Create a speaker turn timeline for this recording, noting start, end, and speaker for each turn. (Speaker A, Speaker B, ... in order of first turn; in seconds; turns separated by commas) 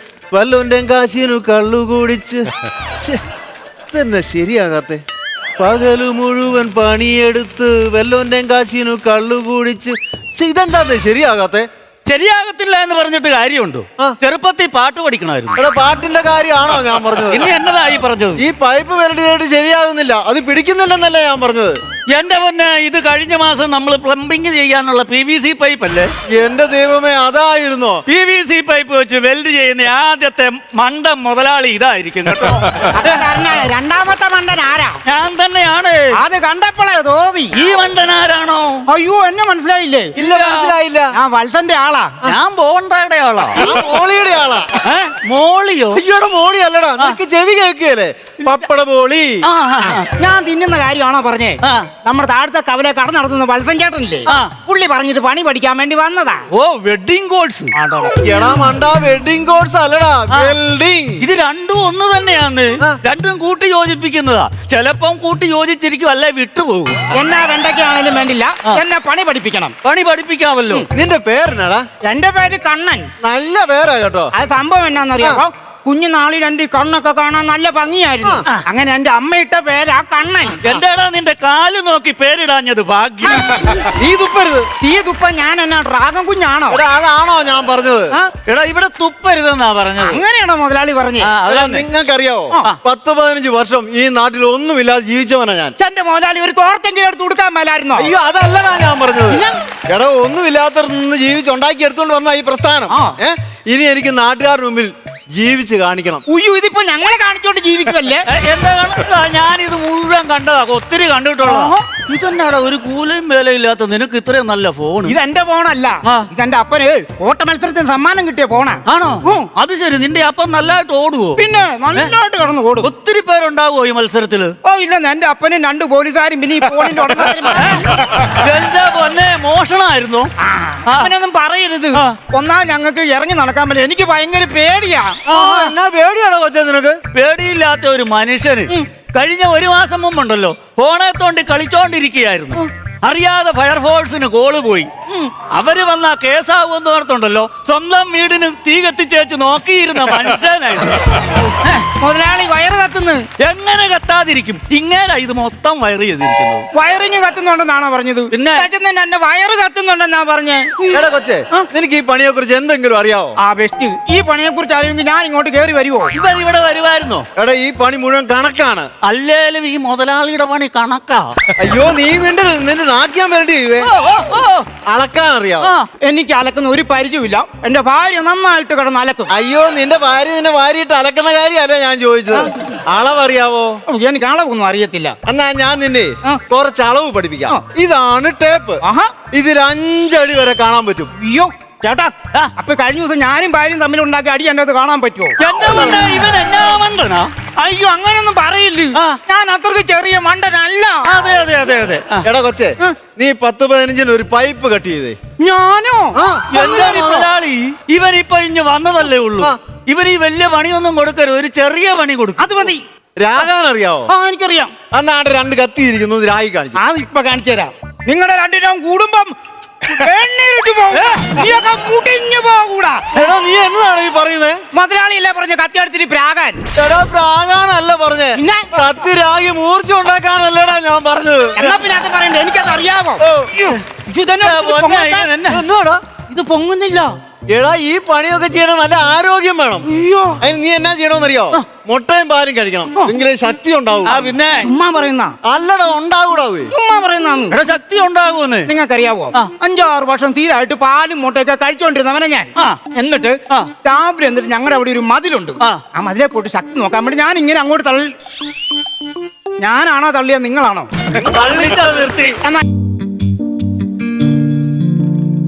Speaker A: 0.3-2.5, Speaker A: 3.9-5.0, Speaker A: 5.6-11.7, Speaker B: 12.1-15.6, Speaker A: 15.6-17.5, Speaker B: 17.1-18.4, Speaker A: 18.4-21.8, Speaker B: 22.1-26.1, Speaker A: 26.3-28.0, Speaker B: 28.1-33.2, Speaker C: 32.9-35.0, Speaker B: 35.1-36.1, Speaker C: 36.1-37.6, Speaker B: 37.5-38.8, Speaker C: 38.9-40.1, Speaker B: 40.2-40.7, Speaker A: 40.2-41.1, Speaker C: 41.1-42.1, Speaker B: 42.2-43.8, Speaker A: 43.6-44.8, Speaker B: 44.8-46.0, Speaker A: 45.9-49.5, Speaker B: 49.4-50.1, Speaker C: 50.2-56.5, Speaker B: 51.6-51.9, Speaker B: 54.3-54.5, Speaker B: 56.5-57.7, Speaker C: 57.8-58.3, Speaker A: 58.2-61.3, Speaker B: 61.2-67.0, Speaker C: 67.1-69.7, Speaker B: 69.8-70.9, Speaker A: 70.9-71.9, Speaker C: 72.0-73.1, Speaker A: 73.2-74.3, Speaker C: 74.3-80.6, Speaker B: 80.6-83.5, Speaker A: 84.0-84.7, Speaker C: 84.8-86.8, Speaker A: 86.7-88.2, Speaker B: 88.4-90.2, Speaker C: 90.0-91.3, Speaker B: 91.2-91.9, Speaker A: 91.5-95.8, Speaker C: 95.8-98.1, Speaker A: 98.0-106.2, Speaker C: 99.3-99.6, Speaker C: 102.9-103.2, Speaker C: 106.3-108.3, Speaker B: 108.3-115.2, Speaker C: 111.5-111.8, Speaker C: 115.0-119.5, Speaker B: 118.9-121.4, Speaker C: 121.4-122.9, Speaker B: 122.8-124.5, Speaker C: 124.6-127.9, Speaker B: 127.5-130.3, Speaker C: 130.4-135.6, Speaker B: 130.9-131.1, Speaker A: 135.3-137.0, Speaker B: 135.3-135.7, Speaker B: 137.1-151.7, Speaker C: 151.7-153.2, Speaker B: 153.4-156.7, Speaker C: 156.7-161.7, Speaker B: 158.3-158.7, Speaker A: 160.9-163.4, Speaker C: 163.4-166.1, Speaker B: 166.1-167.3, Speaker A: 167.4-168.9, Speaker B: 169.0-171.3, Speaker A: 171.6-173.9, Speaker B: 173.8-174.7, Speaker A: 174.9-175.7, Speaker B: 175.6-175.9, Speaker C: 176.0-179.3, Speaker A: 179.3-183.8, Speaker C: 183.9-185.2, Speaker A: 185.3-188.8, Speaker C: 188.8-189.1, Speaker A: 189.3-191.1, Speaker C: 191.2-196.0, Speaker B: 195.4-197.3, Speaker C: 197.6-201.1, Speaker B: 201.1-202.3, Speaker A: 202.2-205.2, Speaker C: 205.4-207.2, Speaker A: 206.2-207.3, Speaker B: 206.5-212.6, Speaker C: 212.4-212.8, Speaker A: 213.2-214.1, Speaker C: 214.1-214.7, Speaker A: 214.9-216.8, Speaker C: 216.8-223.0, Speaker A: 223.1-224.6, Speaker C: 224.7-226.6, Speaker A: 226.8-231.7, Speaker C: 228.4-228.9, Speaker C: 231.6-235.3, Speaker A: 233.2-233.5, Speaker B: 234.4-235.7, Speaker A: 235.5-236.0, Speaker B: 236.3-237.1, Speaker A: 237.5-239.9, Speaker C: 239.9-240.4, Speaker A: 240.4-244.3, Speaker B: 244.1-244.7, Speaker C: 244.6-245.3, Speaker A: 245.4-246.7, Speaker C: 246.7-247.6, Speaker B: 247.5-248.7, Speaker C: 248.7-258.1, Speaker B: 252.6-252.8, Speaker C: 259.6-260.9, Speaker B: 261.1-262.4